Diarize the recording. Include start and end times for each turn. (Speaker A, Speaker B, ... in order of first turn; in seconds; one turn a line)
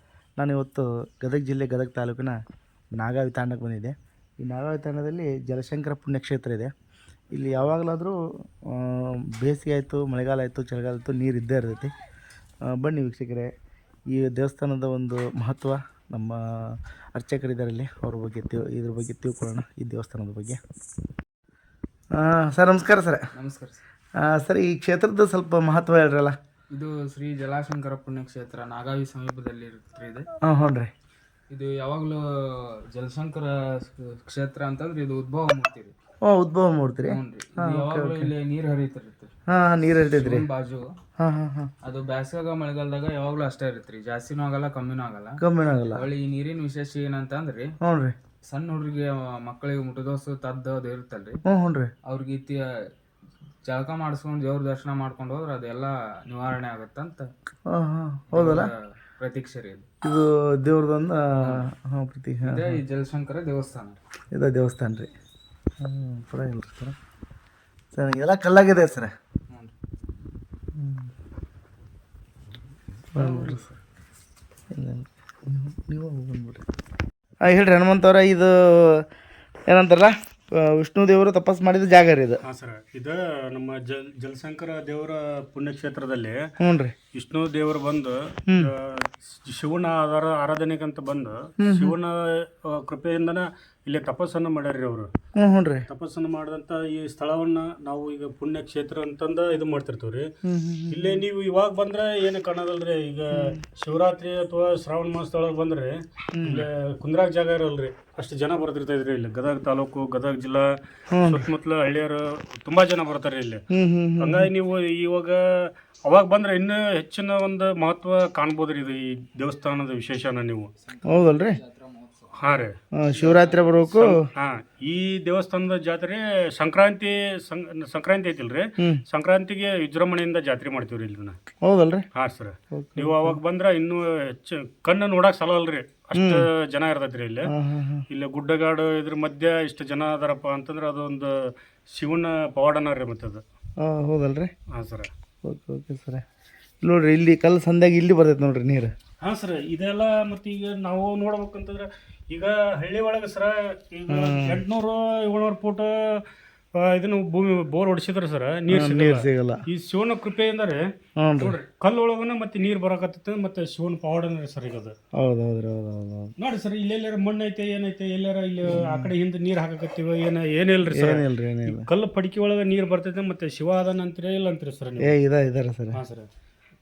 Speaker A: 0.4-2.4
Speaker A: 3.0-6.7
Speaker A: 7.3-8.2
Speaker A: 8.7-11.9
Speaker A: 12.7-13.5
Speaker A: 14.1-20.6
Speaker A: 22.2-23.3
Speaker B: 23.4-23.8
Speaker A: 24.2-26.4
Speaker B: 26.7-30.3
Speaker A: 30.4-30.9
Speaker B: 31.5-32.2
Speaker B: 32.9-35.9
Speaker A: 36.3-38.3
Speaker B: 37.1-39.3
Speaker A: 39.5-40.5
Speaker B: 39.9-41.0
Speaker A: 41.2-41.7
Speaker B: 41.8-47.7
Speaker A: 45.4-46.1
Speaker A: 47.8-48.1
Speaker B: 48.5-51.4
Speaker A: 51.5-51.9
Speaker B: 52.1-52.6
Speaker B: 53.7-57.3
Speaker A: 57.7-58.7
Speaker B: 58.3-59.9
Speaker A: 60.0-62.8
Speaker B: 61.4-61.7
Speaker B: 62.4-64.0
Speaker A: 64.3-65.1
Speaker A: 65.8-67.0
Speaker A: 67.9-69.1
Speaker B: 69.5-69.8
Speaker A: 70.8-71.1
Speaker A: 73.1-73.7
Speaker B: 73.2-73.6
Speaker A: 74.7-76.6
Speaker A: 77.5-79.0
Speaker A: 79.7-82.4
Speaker C: 82.4-86.5
Speaker A: 86.6-86.9
Speaker C: 87.1-95.1
Speaker A: 91.6-91.9
Speaker A: 95.3-95.9
Speaker C: 95.9-100.3
Speaker A: 100.5-101.2
Speaker C: 100.9-113.6
Speaker A: 106.3-106.7
Speaker A: 111.1-111.5
Speaker A: 113.7-114.5
Speaker C: 114.2-120.7
Speaker B: 120.8-124.0
Speaker A: 121.1-121.6
Speaker C: 122.4-122.8
Speaker A: 122.9-124.2
Speaker C: 124.0-131.4
Speaker A: 131.6-132.1
Speaker C: 132.2-137.5
Speaker A: 132.7-133.4
Speaker A: 136.2-136.4
Speaker A: 137.5-138.1
Speaker C: 138.1-143.4
Speaker A: 143.8-144.5
Speaker C: 144.7-145.1
Speaker A: 145.5-146.2
Speaker A: 146.8-148.9
Speaker C: 149.2-160.8
Speaker A: 154.1-154.6
Speaker A: 158.7-159.6
Speaker A: 161.2-161.6
Speaker C: 161.4-164.9
Speaker A: 165.2-166.3
Speaker C: 166.4-175.2
Speaker A: 168.7-169.1
Speaker A: 170.9-171.9
Speaker A: 175.0-176.0
Speaker C: 175.9-176.3